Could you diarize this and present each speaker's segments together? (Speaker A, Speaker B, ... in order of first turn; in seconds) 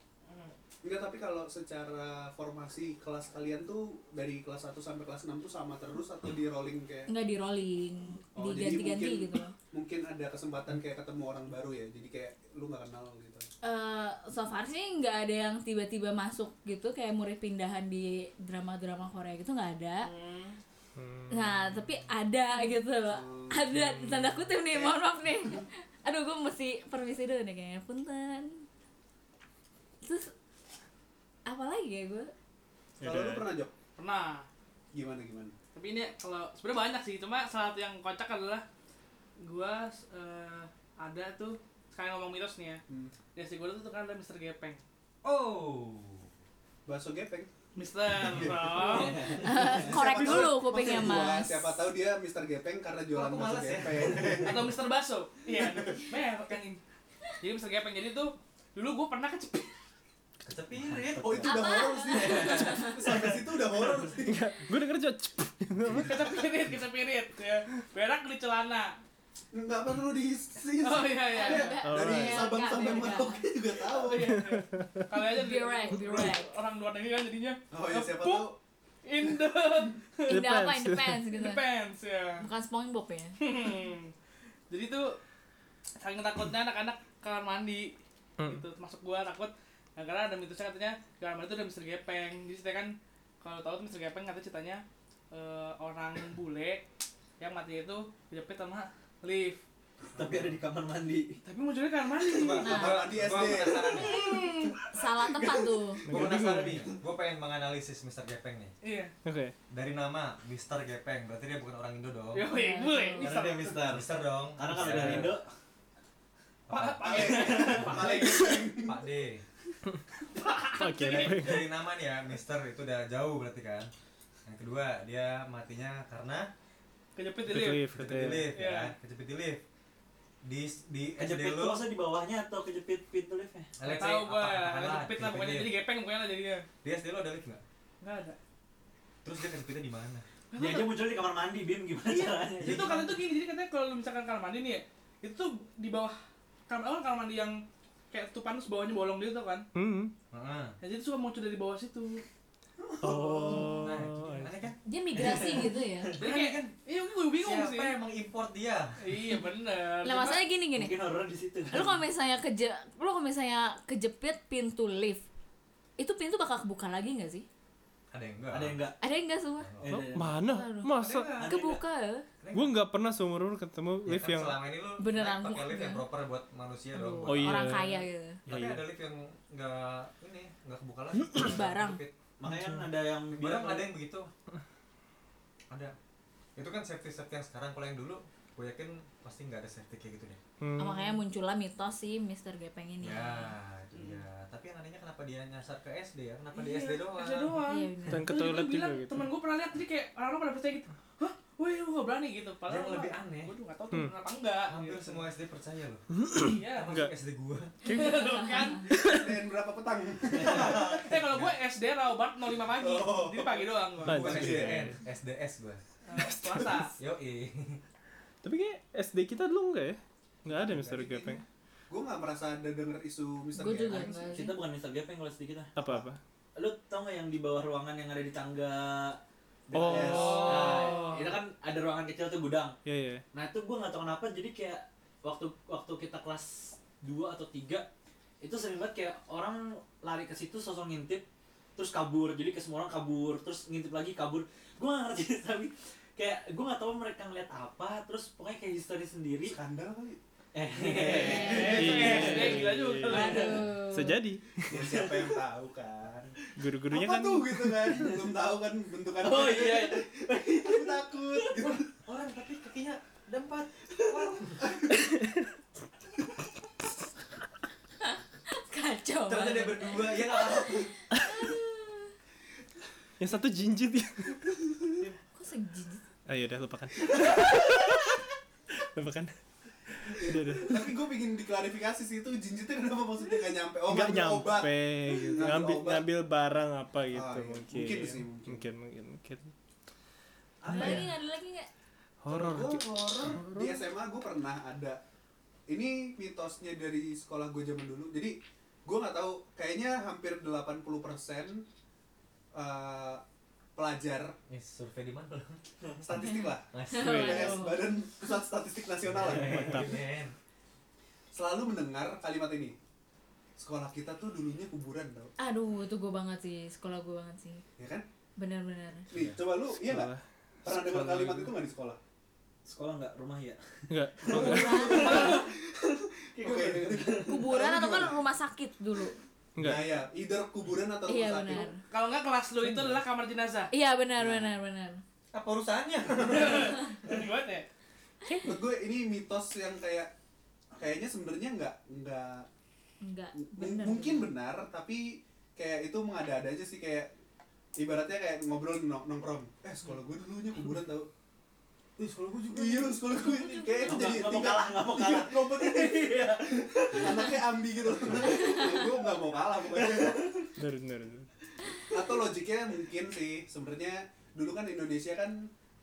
Speaker A: 0.3-0.5, 20.0-20.6, 34.0-34.5, 35.7-38.6, 39.4-42.8, 43.3-44.8, 47.8-49.4, 54.4-56.8, 57.4-59.7, 66.0-69.0, 70.8-71.8, 73.8-78.5, 79.0-80.4, 81.3-82.5, 83.4-84.1, 84.7-85.2, 86.0-96.8, 97.4-99.6, 101.4-102.9, 108.8-109.1, 112.3-113.8, 116.7-118.5, 120.4-121.5, 127.2-128.9, 133.8-136.7, 138.0-138.4, 140.5-141.1, 142.1-149.7, 150.8-152.2, 156.2-158.0, 159.0-160.4, 193.9-194.2, 196.5-205.2, 206.4-207.0, 207.8-209.0, 210.5-214.2, 216.1-216.9, 230.4-231.3, 251.1-253.7, 331.8-333.7, 336.2-337.7
Speaker B: 0.8-7.1, 8.3-13.5, 23.1-23.8, 24.7-25.0, 33.0-33.7, 34.9-35.5, 42.9-43.1, 46.9-47.5, 48.1-54.7, 55.5-56.0, 61.2-64.4, 69.5-74.4, 77.7-78.6, 79.2-79.6, 102.6-104.7, 117.0-119.1, 152.8-153.9, 208.9-211.1, 212.8-214.9, 220.5-224.2, 229.8-230.5, 249.5-250.2, 250.7-251.7, 254.7-256.4, 256.9-261.9, 280.2-286.1, 287.1-288.6, 290.7-291.0, 292.3-295.0, 295.7-301.7, 302.5-303.2, 303.8-304.4, 306.0-309.9, 311.3-312.8, 313.6-315.3, 317.8-318.1, 319.1-320.1, 320.6-322.0, 324.3-325.5, 326.3-328.2, 329.6-331.7, 334.2-334.6, 338.4-340.1, 340.7-342.5, 343.4-347.1, 347.8-351.1, 352.5-360.5, 361.9-365.5
Speaker C: 7.1-9.5, 13.6-20.1, 21.3-28.6, 30.0-30.3, 31.4-32.3, 49.0-51.8, 61.4-63.2, 71.3-73.4, 75.4-76.5, 80.3-81.6, 82.4-83.4, 102.6-103.0, 103.7-106.0, 112.5-113.3, 154.8-156.1, 160.0-160.9, 161.7-165.2, 166.0-167.4, 169.0-169.7, 170.4-172.2, 175.0-176.0, 176.9-178.4, 181.4-182.0, 190.8-193.5, 197.6-198.3, 207.9-208.8, 223.6-224.6, 251.2-252.3, 253.0-254.2, 268.5-272.1, 275.3-276.1, 290.7-291.7, 306.1-307.9, 315.4-317.6, 318.4-319.1, 324.3-325.5, 327.2-329.2, 331.1-331.8, 333.7-335.0, 343.0-344.3, 353.1-354.1
Speaker D: 20.9-21.8, 23.7-24.3, 33.0-33.5, 64.0-66.4, 71.8-72.6, 74.3-75.0, 80.3-81.3, 88.4-88.7, 106.0-106.9, 109.2-109.5, 120.7-121.7, 127.5-128.5, 149.7-150.1, 153.0-154.7, 169.9-171.4, 172.5-174.6, 177.2-178.9, 182.4-182.8, 190.6-191.2, 198.1-199.3, 206.1-207.1, 208.9-209.3, 214.0-215.0, 218.4-221.4, 225.7-226.2, 229.7-230.7, 232.8-233.2, 251.7-254.9, 256.6-258.2, 265.2-265.4, 273.2-274.7, 276.3-279.3, 280.0-280.9, 283.8-289.5, 290.7-291.1, 292.2-293.8, 309.3-310.0, 319.7-321.5, 323.9-325.0, 329.6-329.9, 332.6-333.0, 360.6-361.3
Speaker E: 45.2-46.3, 48.9-49.2, 53.1-54.6, 60.4-61.5, 100.1-100.6, 102.2-104.2, 106.1-108.7, 109.7-112.5, 113.2-115.4, 116.7-119.4, 120.8-123.9, 124.5-126.5, 127.7-129.6, 130.4-131.9, 133.8-135.7, 136.8-137.6, 139.2-140.2, 142.6-143.2, 150.3-150.8, 153.8-154.8, 156.2-156.7, 157.4-159.0, 168.1-168.9, 169.6-170.1, 170.9-171.5, 172.4-172.8, 174.0-177.8, 178.4-182.1, 183.3-184.3, 185.7-185.9, 186.6-190.4, 193.0-197.7, 202.7-203.5, 204.7-206.2, 206.7-207.8, 210.4-211.5, 214.1-215.8, 216.9-217.8, 261.6-264.8, 269.2-270.9, 304.5-305.6, 306.7-307.6, 309.0-310.3, 319.1-319.4, 335.3-337.2
Speaker F: 48.9-49.4, 100.1-101.4, 106.2-106.4, 113.2-115.5, 117.2-118.3, 131.2-133.7, 140.5-142.9, 155.2-155.7, 160.7-162.0, 168.5-169.0, 169.8-170.4, 171.3-171.8, 182.4-183.9, 224.3-225.7, 226.6-232.8, 233.3-237.9, 238.4-249.6, 250.5-252.7, 259.2-261.2, 322.6-325.5, 326.3-327.4, 352.0-357.5, 358.4-358.9, 359.8-360.1